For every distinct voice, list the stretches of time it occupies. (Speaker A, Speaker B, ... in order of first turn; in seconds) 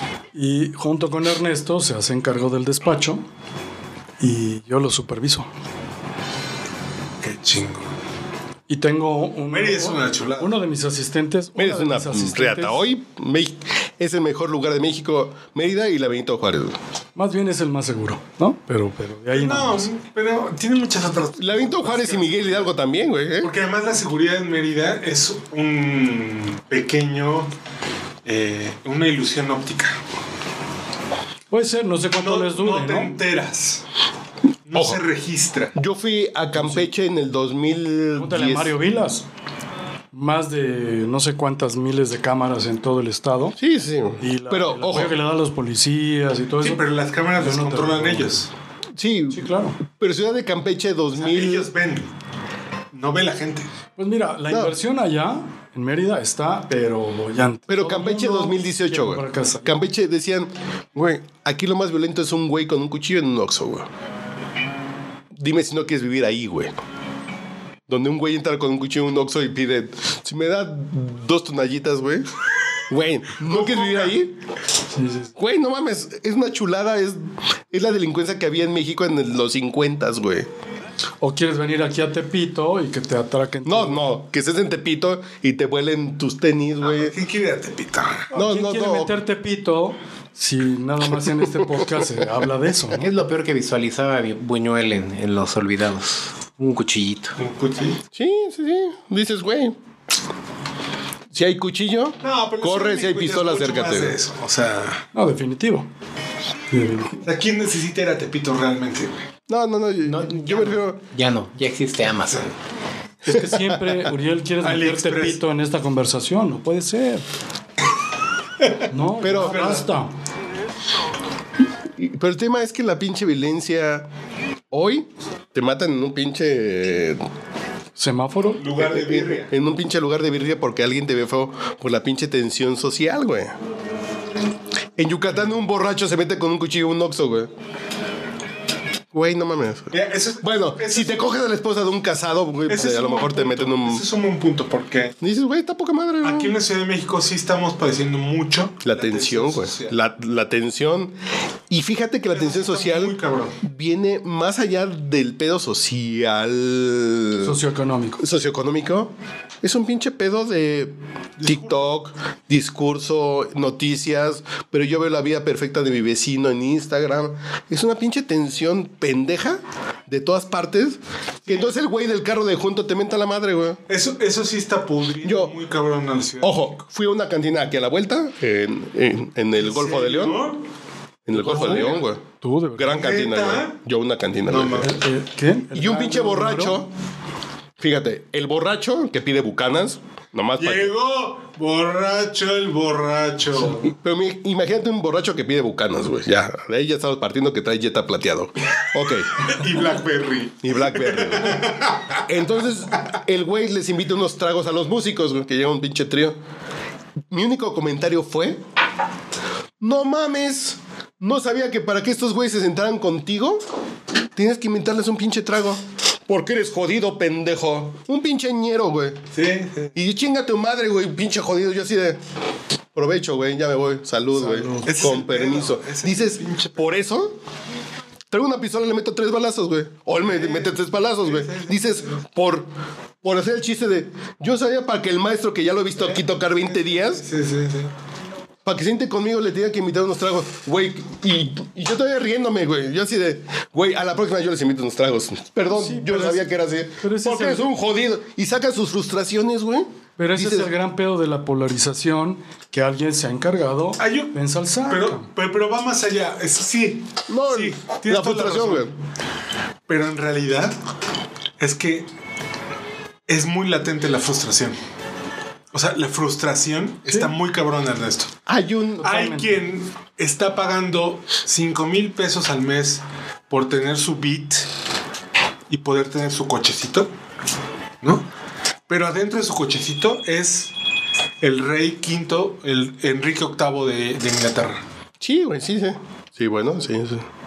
Speaker A: 0.3-3.2, 4.2-5.5, 8.7-12.8, 17.2-19.9, 31.5-33.1, 36.5-36.9, 38.2-39.2, 40.1-43.6, 44.2-46.9, 47.4-48.4, 49.3-49.8, 54.0-59.9, 74.9-75.3, 81.2-84.0, 88.3-93.1, 105.1-105.9, 106.7-107.1, 113.3-117.3, 118.9-120.1, 128.0-128.7, 157.4-158.2, 181.3-182.9, 184.8-186.8, 224.3-224.9, 245.7-247.7, 250.2-255.3, 267.1-267.3, 269.0-269.5
Speaker B: 7.2-7.9, 9.5-10.5, 19.3-22.8, 23.4-27.5, 28.2-30.0, 32.1-33.8, 34.7-35.7, 46.6-48.5, 51.1-52.1, 52.9-53.7, 73.5-74.2, 86.8-88.3, 97.4-98.0, 102.2-105.1, 107.2-109.2, 114.6-115.4, 118.6-119.9, 128.6-129.5, 139.9-141.3, 142.7-145.2, 146.2-149.9, 152.3-153.6, 161.4-161.9, 171.5-171.7, 173.9-176.8, 179.6-180.6, 181.4-182.0, 182.9-183.8, 184.5-184.9, 190.6-193.9, 199.4-202.1, 219.3-219.9, 224.8-227.0, 230.2-232.2, 235.9-237.9, 254.0-254.3, 254.9-258.9, 259.9-260.8, 261.6-262.1, 263.3-264.8, 265.7-268.3, 269.0-274.7, 275.7-277.1, 278.0-278.3, 278.9-280.7, 281.4-284.8
Speaker C: 11.6-16.8, 21.4-23.5, 35.8-38.8, 43.6-45.1, 49.0-51.7, 54.5-54.8, 57.7-63.9, 65.3-66.7, 67.9-72.3, 72.9-74.3, 75.4-80.5, 83.7-87.1, 88.3-89.2, 98.1-99.8, 101.3-104.2, 109.5-111.0, 113.3-114.0, 119.2-119.8, 122.0-124.1, 124.7-127.2, 128.8-133.6, 135.0-137.5, 139.1-144.0, 145.2-146.5, 148.8-151.2, 151.7-157.6, 158.2-173.8, 175.2-175.5, 176.4-180.4, 181.3-182.2, 182.8-184.9, 185.7-186.9, 187.8-190.9, 193.7-199.5, 200.6-206.4, 207.3-208.6, 209.8-213.6, 214.3-219.2, 219.9-222.2, 222.9-227.3, 228.3-232.7, 233.2-237.2, 238.7-250.7, 257.3-258.9, 268.5-269.1, 285.2-287.2
Speaker D: 93.0-97.3, 110.0-112.5